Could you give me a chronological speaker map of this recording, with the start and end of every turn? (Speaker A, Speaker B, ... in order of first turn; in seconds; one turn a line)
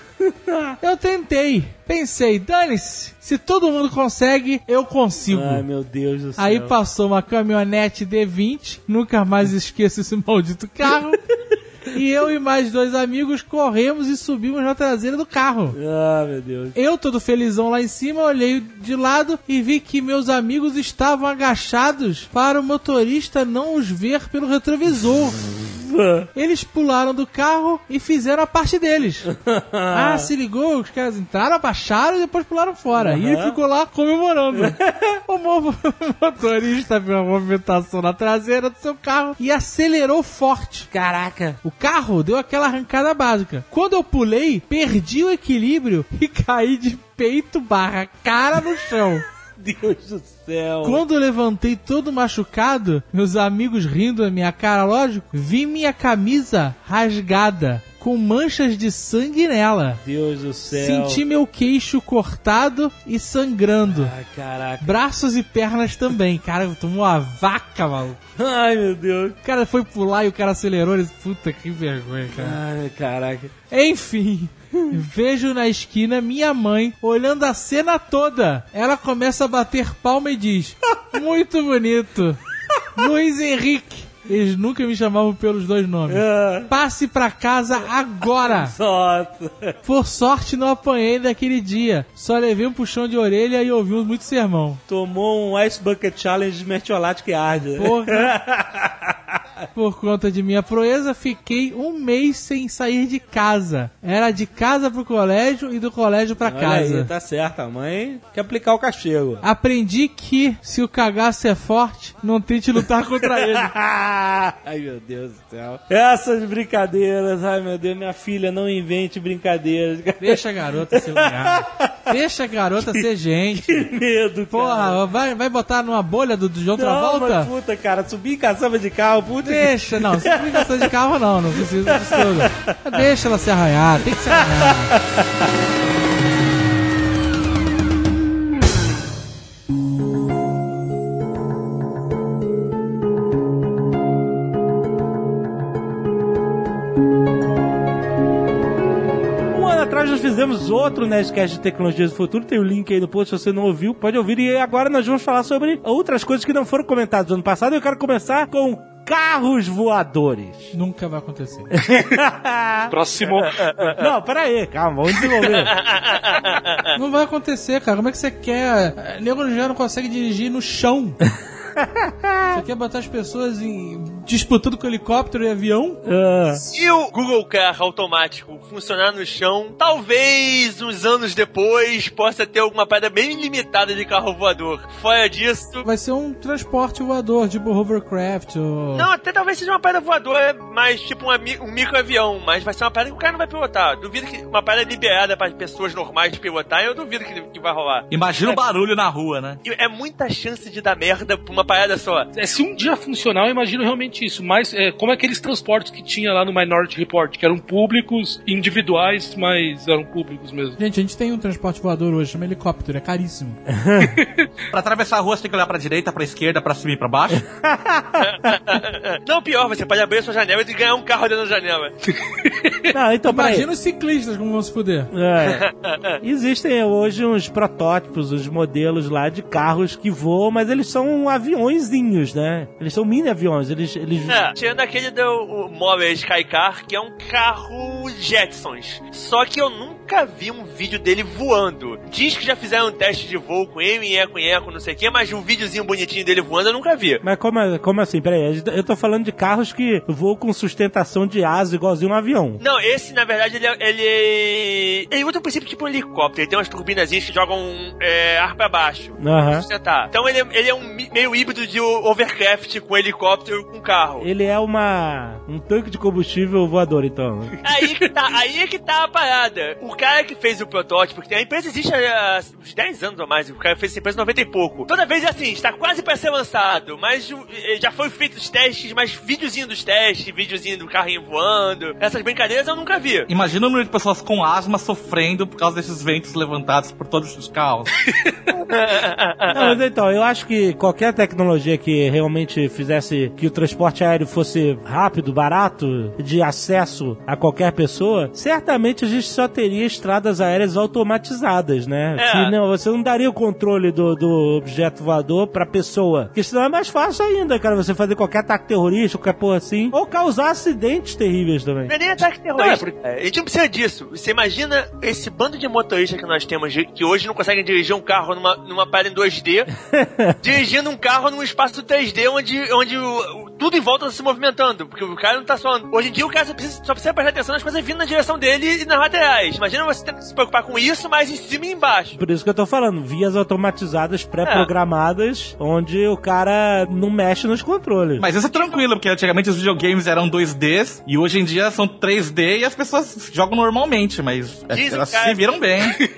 Speaker A: 0.2-0.8
Speaker B: 0.8-5.7
Speaker A: 5.3-6.7
Speaker B: 6.4-11.2
Speaker B: 11.9-15.8
Speaker A: 15.7-16.8
Speaker B: 16.7-25.4
Speaker A: 25.4-26.3
Speaker B: 26.3-29.3
Speaker A: 29.3-30.3
Speaker B: 29.9-34.7
Speaker A: 33.0-33.5
Speaker A: 34.5-35.2
Speaker B: 35.3-40.9
Speaker A: 40.9-41.6
Speaker B: 41.6-49.2
Speaker A: 49.6-51.0
Speaker B: 50.8-60.0
Speaker A: 60.0-61.2
Speaker B: 60.7-64.1
Speaker A: 63.9-65.0
Speaker B: 64.8-68.2
Speaker A: 68.4-69.4
Speaker B: 69.4-72.6
Speaker A: 72.3-73.5
Speaker B: 73.7-82.4
Speaker B: 82.9-88.7
Speaker A: 86.1-86.7
Speaker A: 88.2-89.8
Speaker B: 89.8-94.8
Speaker A: 94.9-99.4
Speaker B: 97.8-98.3
Speaker B: 99.7-107.1
Speaker A: 106.4-109.4
Speaker B: 109.4-113.7
Speaker A: 112.8-122.2
Speaker B: 120.2-123.9
Speaker A: 122.8-125.0
Speaker B: 124.5-127.5
Speaker A: 126.7-130.9
Speaker B: 129.4-135.0
Speaker A: 131.5-133.1
Speaker A: 134.2-135.2
Speaker A: 149.5-160.7
Speaker B: 160.7-161.8
Speaker A: 161.7-162.9
Speaker C: 162.9-164.0
Speaker D: 163.4-164.0
Speaker A: 164.0-165.7
Speaker D: 165.5-166.9
Speaker B: 166.9-171.2
Speaker A: 171.8-172.6
Speaker B: 172.5-176.0
Speaker A: 176.0-176.6
Speaker D: 176.6-185.8
Speaker B: 185.8-189.1
Speaker D: 188.9-198.6
Speaker E: 198.1-199.6
Speaker D: 199.6-202.3
Speaker C: 202.3-210.8
Speaker B: 210.8-213.6
Speaker A: 213.7-214.2
Speaker E: 214.7-217.4
Speaker A: 217.4-218.3
Speaker D: 218.2-221.9
Speaker C: 222.4-222.7
Speaker A: 222.9-223.7
Speaker B: 223.3-225.1
Speaker A: 225.1-225.6
Speaker D: 225.4-226.2
Speaker A: 226.2-234.3
Speaker D: 234.3-247.2
Speaker A: 247.2-252.6
Speaker D: 252.6-264.3
Speaker A: 259.2-259.6
Speaker A: 264.2-267.5
Speaker D: 267.6-283.3
Speaker E: 283.3-287.9
Speaker D: 288.7-289.8
Speaker A: 289.5-311.9
Speaker D: 302.2-302.5
Speaker D: 311.9-319.7
Speaker C: 312.6-312.9
Speaker A: 319.9-320.4
Speaker D: 320.4-332.2
Speaker A: 332.1-338.2
Speaker E: 338.2-346.0
Speaker D: 338.5-338.8
Speaker D: 344.7-345.6